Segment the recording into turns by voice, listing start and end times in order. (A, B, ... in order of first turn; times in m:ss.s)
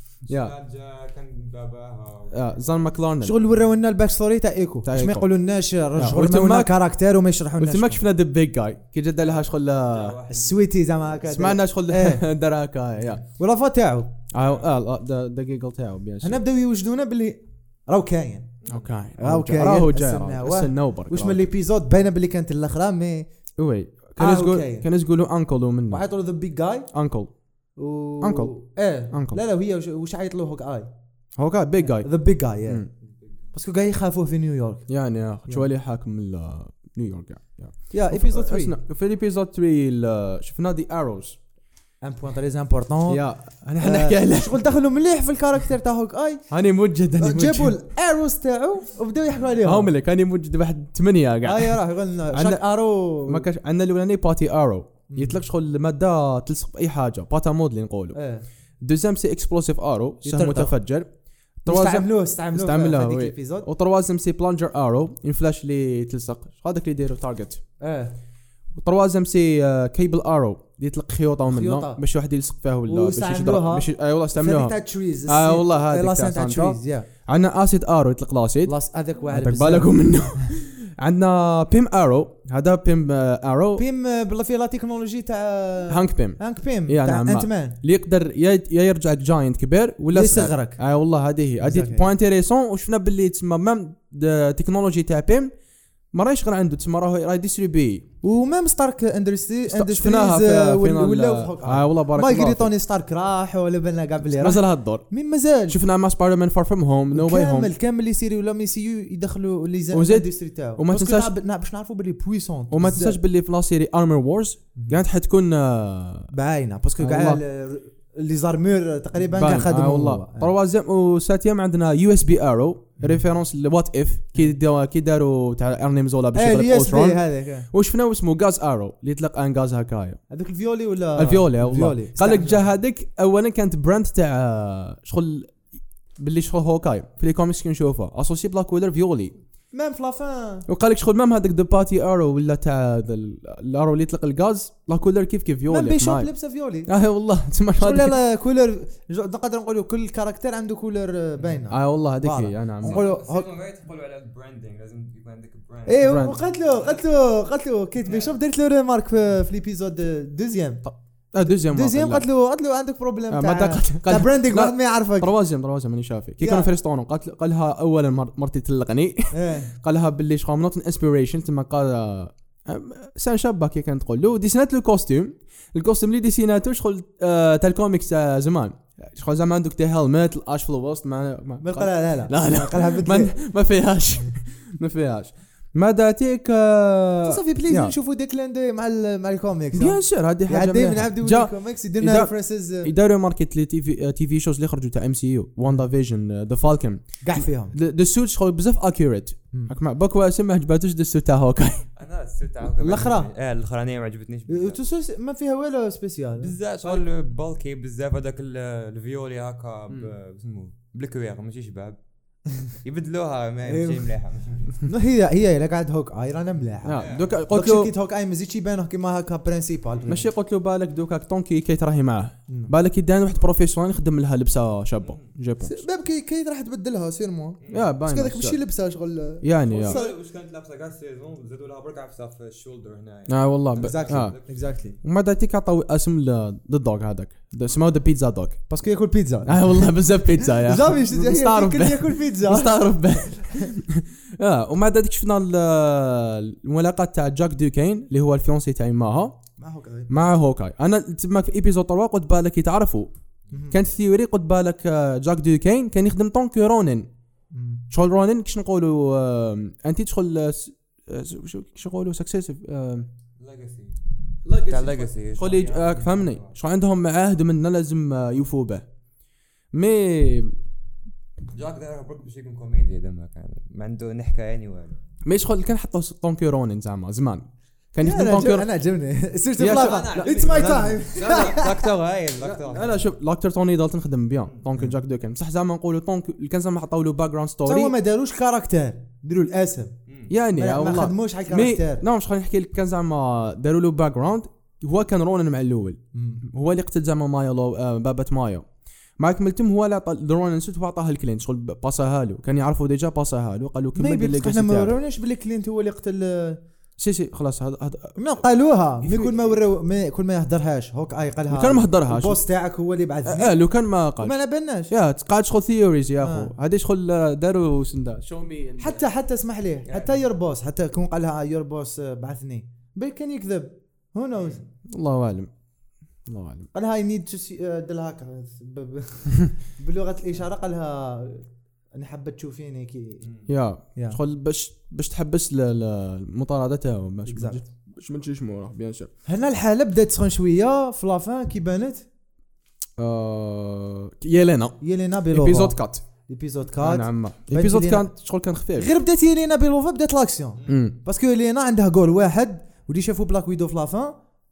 0:00.3-0:02.7 A
0:00.3-0:00.5 B
0:02.3-0:03.4 B
0:03.2-0:08.0 C
0:04.8-0:05.3 B
0:06.0-0:06.8 B
0:07.6-0:10.2 B
0:09.2-0:10.9 A
0:10.3-0:12.2 C
0:11.2-0:13.2 B
0:13.4-0:14.2 C
0:14.3-0:16.4 B
0:14.4-0:14.6 A
0:16.2-0:18.5 C
0:18.6-0:18.9 A
0:18.7-0:21.5 B
0:19.2-0:23.3 C
0:23.6-0:26.0 B
0:24.2-0:24.9 C
0:25.9-0:26.9 C
0:26.9-0:27.3 B
0:27.8-0:30.9 C
0:28.2-0:28.5 B
0:29.1-0:29.4 B
0:31.4-0:32.1 B
0:31.8-0:32.9 C
0:33.0-0:33.4 A
0:33.5-0:34.9 C
0:34.9-0:41.4 B
0:37.9-0:38.8 C
0:42.0-0:43.3 C
0:43.1-0:44.6 B
0:43.8-0:46.4 C
0:46.5-0:47.8 B
0:47.2-0:49.9 C
0:49.6-0:51.8 B
0:51.4-0:53.5 C
0:52.3-0:52.6 B
0:53.2-0:58.2 B
0:55.1-0:55.4 C
0:58.1-0:58.5 C
0:58.8-1:01.1 B
1:00.2-1:00.8 C
1:01.6-1:07.6 B
1:01.7-1:03.7 C
1:07.8-1:08.2 C
1:08.8-1:18.8 B
1:11.5-1:12.0 C
1:12.9-1:17.1 C
1:18.6-1:20.0 C
1:19.3-1:23.8 B
1:23.8-1:27.8 C
1:25.9-1:35.5 B
1:30.1-1:30.8 C
1:31.6-1:32.1 C
1:36.1-1:38.1 B
1:38.2-1:45.8 C
1:39.7-1:42.7 B
1:44.2-1:45.1 B
1:45.7-1:47.7 B
1:47.1-1:53.2 C
1:49.9-1:51.3 B
1:52.7-1:56.3 B
1:56.3-2:00.5 C
1:57.0-1:57.4 B
1:59.2-2:10.2 B
2:06.3-2:07.7 C
2:10.3-2:12.7 C
2:11.2-2:15.6 B
2:16.2-2:19.4 B
2:19.7-2:20.7 C
2:20.7-2:26.3 B
2:25.7-2:26.9 C
2:26.9-2:28.2 B
2:27.8-2:33.5 C
2:31.7-2:33.0 B
2:32.8-2:37.0 A
2:35.9-2:40.8 C
2:36.0-2:36.4 B
2:38.0-2:38.4 A
2:40.8-2:42.3 B
2:41.4-2:45.3 C
2:43.3-3:08.0 B
2:46.4-2:46.7 C
2:49.3-2:49.7 C
3:01.6-3:03.4 C
3:07.2-3:12.9 C
3:09.7-3:21.9 B
3:17.2-3:17.8 C
3:22.0-3:24.8 A
3:22.8-3:23.3 C
3:24.5-3:27.0 C
3:26.4-3:32.0 A
3:32.7-3:34.8 A
3:33.7-3:34.1 C
3:34.8-3:40.2 C
3:36.8-3:37.9 B
3:37.0-3:37.4 A
3:40.0-3:40.2 A
3:40.1-3:45.8 B
3:45.0-3:45.3 A
3:45.6-3:50.2 C
3:47.6-3:47.9 A
3:47.7-3:48.6 B
3:49.4-3:50.0 B
3:49.7-3:54.6 A
3:53.3-3:54.4 B
3:53.8-3:55.0 C
3:55.0-3:58.6 B
3:58.7-4:03.7 C
3:59.5-4:09.4 B
4:09.6-4:10.1 C
4:10.1-4:13.1 B
4:13.5-4:13.8 C
4:13.7-4:17.1 B
4:17.5-4:17.8 C
4:17.9-4:23.1 B
4:23.4-4:24.0 A
4:24.4-4:28.9 B
4:24.6-4:26.6 A
4:29.7-4:30.6 B
4:31.5-4:35.0 A
4:35.2-4:38.7 B
4:38.0-4:41.8 C
4:39.6-4:41.6 B
4:39.6-4:43.1 A
4:42.4-4:47.9 B
4:47.6-4:50.0 C
4:50.1-4:50.3 A
4:50.3-4:58.7 B
4:50.6-4:52.0 C
4:56.1-4:56.4 C
4:59.2-5:05.0 B
5:04.0-5:06.6 C
5:07.0-5:08.2 B
5:08.2-5:13.7 C
5:09.0-5:09.6 B
5:11.5-5:12.4 B
5:13.2-5:14.4 B
5:14.2-5:14.9 C
5:14.9-5:19.1 B
5:16.2-5:16.5 C
5:18.8-5:24.6 C
5:19.9-5:20.2 A
5:24.4-5:24.6 A
5:24.9-5:25.5 B
5:26.3-5:26.7 B
5:26.7-5:33.3 C
5:33.2-5:33.5 A
5:33.5-5:39.1 B
5:37.3-5:37.6 C
5:39.3-5:42.1 C
5:43.0-5:46.0 B
5:44.8-5:48.1 C
5:46.8-5:48.9 B
5:48.8-5:54.2 C
5:50.7-5:51.0 B